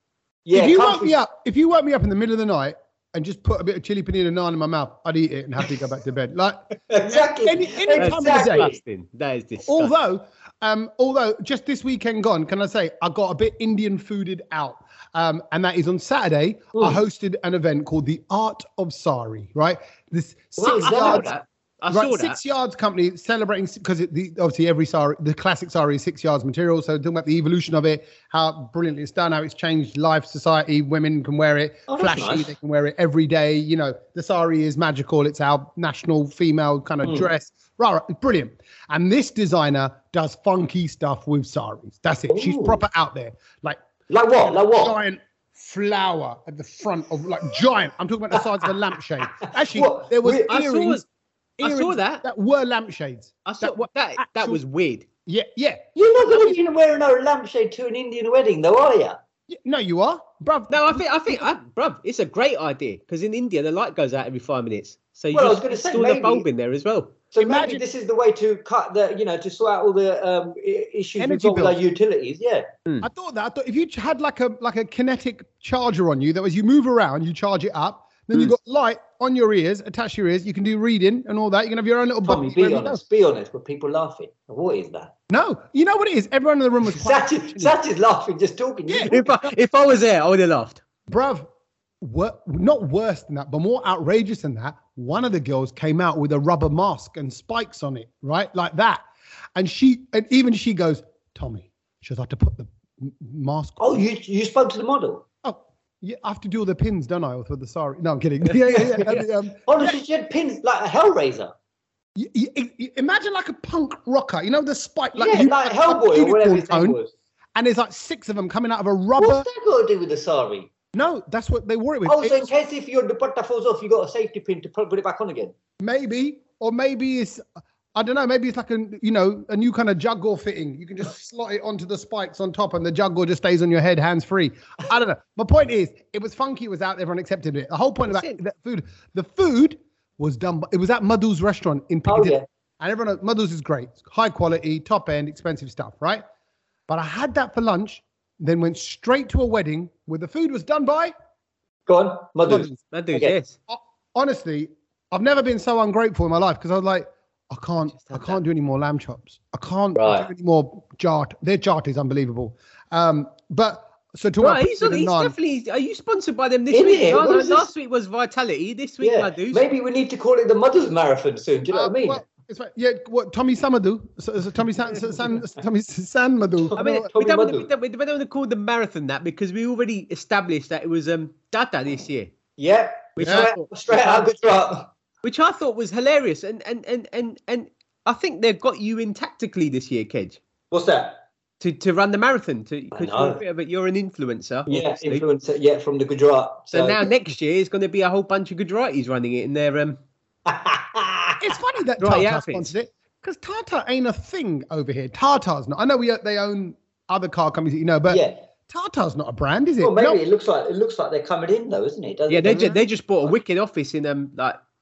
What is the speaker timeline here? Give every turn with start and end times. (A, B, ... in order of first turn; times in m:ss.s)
0:00.4-0:01.2 A
0:00.5-0:08.7 B
0:06.9-0:08.8 A
0:08.0-0:09.9 C
0:09.6-0:21.3 B
0:20.6-0:21.4 A
0:20.8-0:22.4 C
0:21.9-0:43.8 B
0:31.9-0:32.5 A
0:42.3-0:42.8 A
0:44.1-0:45.0 A
0:44.4-0:51.0 B
0:48.4-0:48.7 A
0:49.2-0:50.5 A
0:50.3-0:51.0 C
0:51.6-0:54.6 B
0:51.6-0:52.2 C
0:53.4-0:55.1 C
0:55.2-0:56.6 B
0:56.0-0:59.2 A
0:59.5-1:01.5 B
1:00.7-1:07.2 C
1:05.3-1:06.5 A
1:07.3-1:12.7 A
1:07.4-1:07.8 B
1:11.2-1:11.8 B
1:13.0-1:23.0 B
1:22.2-1:25.1 A
1:25.3-1:27.7 B
1:26.8-1:29.3 A
1:28.9-1:29.2 B
1:29.1-1:30.8 C
1:31.1-1:31.5 B
1:32.0-1:39.0 B
1:39.5-1:44.0 B
1:43.8-1:45.2 A
1:45.4-1:50.0 B
1:48.7-1:51.5 A
1:52.2-1:57.0 B
1:55.1-1:57.1 A
1:57.5-1:59.5 B
1:59.2-2:00.7 A
2:00.9-2:02.5 B
2:02.0-2:05.5 A
2:05.8-2:26.2 B
2:18.1-2:18.4 C
2:22.0-2:22.4 A
2:26.9-2:31.1 B
2:31.9-2:33.4 A
2:32.5-2:32.8 B
2:32.8-2:33.6 C
2:33.7-2:45.3 B
2:37.9-2:38.4 C
2:39.9-2:40.3 A
2:44.4-2:49.7 C
2:46.7-2:47.7 A
2:49.0-2:52.2 A
2:51.7-2:57.1 B
2:56.6-2:57.7 A
2:56.8-3:02.3 C
3:02.6-3:04.9 A
3:03.2-3:04.2 C
3:03.2-3:03.5 B
3:05.2-3:10.4 C
3:10.7-3:11.2 A
3:11.6-3:15.2 C
3:12.9-3:13.4 A
3:14.7-3:17.0 A
3:16.7-3:20.0 C
3:20.4-3:21.5 A
3:21.4-3:30.2 B
3:22.0-3:22.7 C
3:28.1-3:28.4 A
3:29.8-3:32.8 A
3:32.3-3:34.6 C